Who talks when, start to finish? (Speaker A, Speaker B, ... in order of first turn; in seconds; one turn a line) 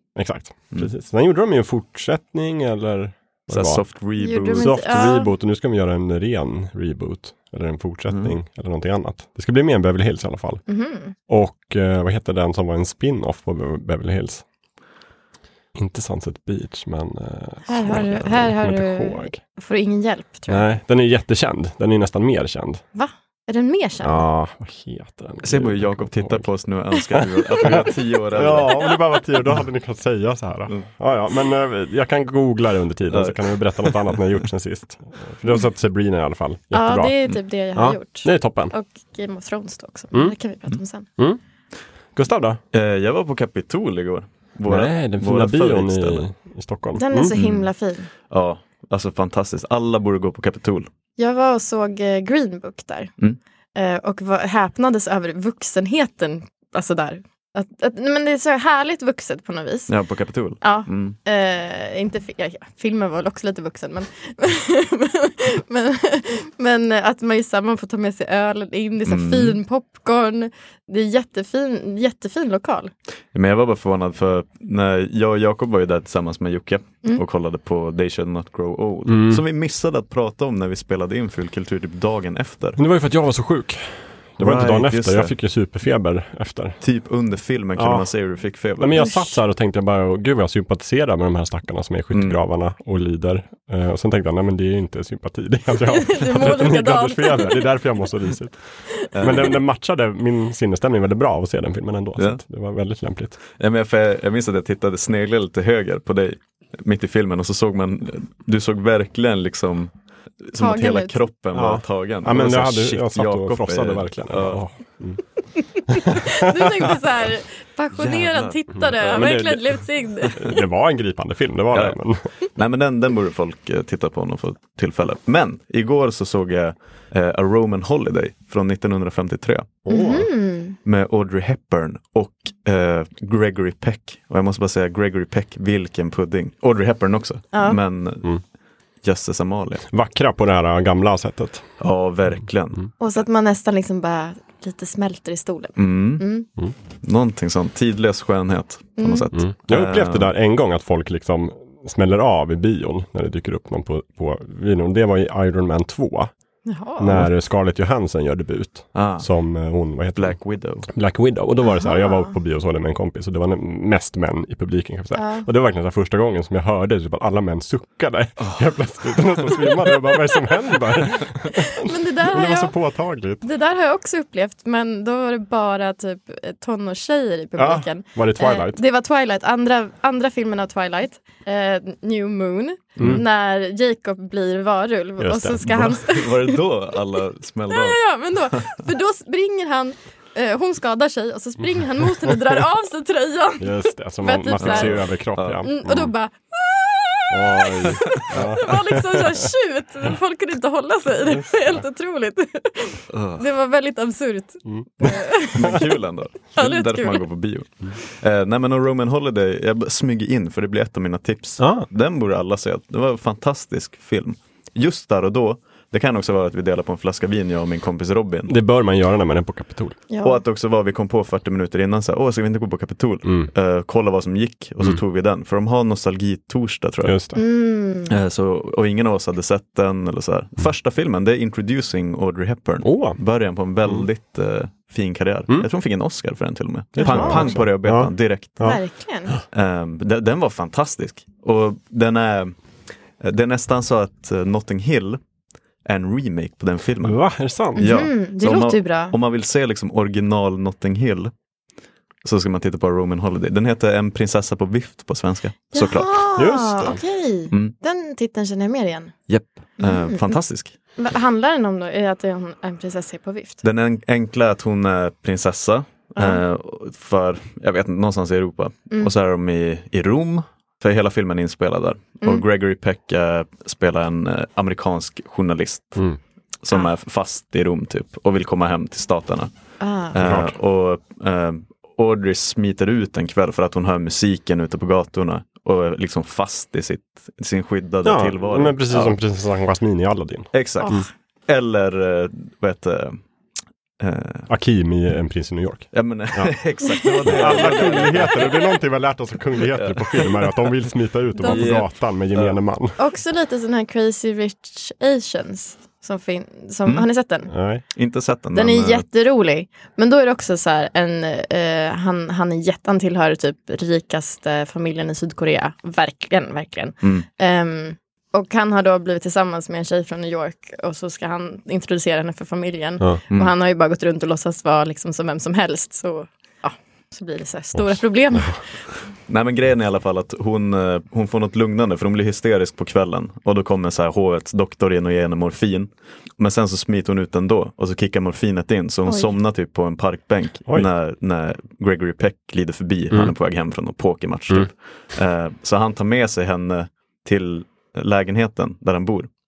Speaker A: 0.1-3.8
Speaker B: 3.5-5.2
Speaker C: 4.2-5.3
Speaker A: 4.5-10.6
Speaker B: 8.1-8.3
Speaker C: 10.7-11.1
Speaker A: 11.3-14.4
Speaker A: 15.7-19.4
Speaker C: 17.7-20.6
Speaker A: 20.5-22.8
Speaker C: 22.9-24.2
Speaker A: 24.0-26.5
Speaker B: 25.4-28.9
Speaker A: 27.6-37.2
Speaker B: 33.1-34.1
Speaker C: 36.7-41.1
Speaker A: 37.7-38.7
Speaker A: 42.1-42.6
Speaker B: 42.7-46.2
Speaker A: 44.6-47.3
Speaker C: 47.0-48.1
Speaker B: 47.4-47.6
Speaker B: 48.3-50.9
Speaker C: 51.2-53.1
Speaker C: 53.7-59.9
Speaker B: 59.9-61.2
Speaker C: 60.6-72.9
Speaker B: 69.0-69.6
Speaker B: 73.3-82.8
Speaker A: 79.1-79.4
Speaker A: 82.8-86.8
Speaker B: 84.4-85.3
Speaker B: 86.8-89.2
Speaker A: 87.8-88.1
Speaker A: 88.8-98.6
Speaker B: 92.1-92.4
Speaker C: 95.8-97.8
Speaker B: 99.1-99.6
Speaker A: 99.2-103.4
Speaker B: 103.5-109.9
Speaker B: 110.5-114.6
Speaker C: 110.6-111.2
Speaker A: 111.5-115.2
Speaker C: 115.5-120.6
Speaker A: 115.9-116.8
Speaker B: 118.0-118.6
Speaker A: 118.8-119.8
Speaker A: 120.3-122.3
Speaker B: 122.5-129.8
Speaker A: 129.8-130.3
Speaker C: 129.9-130.8
Speaker B: 130.8-138.3
Speaker C: 137.5-137.8
Speaker B: 139.0-139.8
Speaker A: 139.9-141.7
Speaker B: 141.8-142.9
Speaker C: 143.0-146.5
Speaker B: 145.8-146.2
Speaker B: 147.0-150.3
Speaker C: 149.0-149.3
Speaker A: 149.3-156.3
Speaker C: 156.7-157.2
Speaker A: 157.0-160.3
Speaker B: 158.9-159.3
Speaker B: 160.2-160.9
Speaker A: 160.9-173.4
Speaker C: 161.6-162.3
Speaker C: 165.1-165.5
Speaker B: 168.4-168.7
Speaker C: 171.5-172.7
Speaker C: 173.4-186.6
Speaker A: 177.6-178.8
Speaker A: 183.0-183.2
Speaker A: 185.2-186.0
Speaker B: 185.7-188.8
Speaker C: 187.7-195.0
Speaker A: 193.6-196.1
Speaker B: 194.6-195.6
Speaker C: 195.6-205.9
Speaker A: 197.3-199.4
Speaker B: 203.1-203.4
Speaker A: 204.7-205.2
Speaker B: 205.5-218.5
Speaker C: 206.5-207.2
Speaker A: 211.6-211.9
Speaker A: 218.5-220.0
Speaker C: 220.1-220.4
Speaker B: 220.2-227.1
Speaker A: 227.0-227.4
Speaker C: 227.3-228.1
Speaker B: 228.1-238.7
Speaker A: 232.8-233.2
Speaker A: 237.0-239.4
Speaker C: 237.0-237.5
Speaker C: 238.6-239.4
Speaker B: 239.5-242.5
Speaker B: 243.2-245.2
Speaker B: 245.8-247.2
Speaker A: 247.0-247.9
Speaker C: 247.8-249.1
Speaker B: 247.8-251.3
Speaker B: 252.2-256.2
Speaker C: 255.7-259.1
Speaker A: 256.4-257.0
Speaker B: 259.3-260.7
Speaker C: 259.8-260.4
Speaker C: 261.0-263.6
Speaker B: 263.6-276.0
Speaker C: 266.1-266.4
Speaker B: 276.6-279.5
Speaker C: 279.8-280.2
Speaker B: 280.1-289.2
Speaker A: 280.2-280.5
Speaker A: 288.0-291.1
Speaker B: 290.5-293.2
Speaker C: 290.8-291.1
Speaker B: 294.0-294.5
Speaker A: 294.5-296.5
Speaker B: 295.9-298.6
Speaker A: 297.2-303.0
Speaker B: 299.6-300.6
Speaker C: 301.4-301.7
Speaker B: 301.4-302.6
Speaker C: 303.0-307.5
Speaker A: 307.5-307.8
Speaker B: 307.9-309.0
Speaker C: 308.5-328.7
Speaker A: 327.7-328.6
Speaker B: 329.3-349.3
Speaker C: 339.1-339.3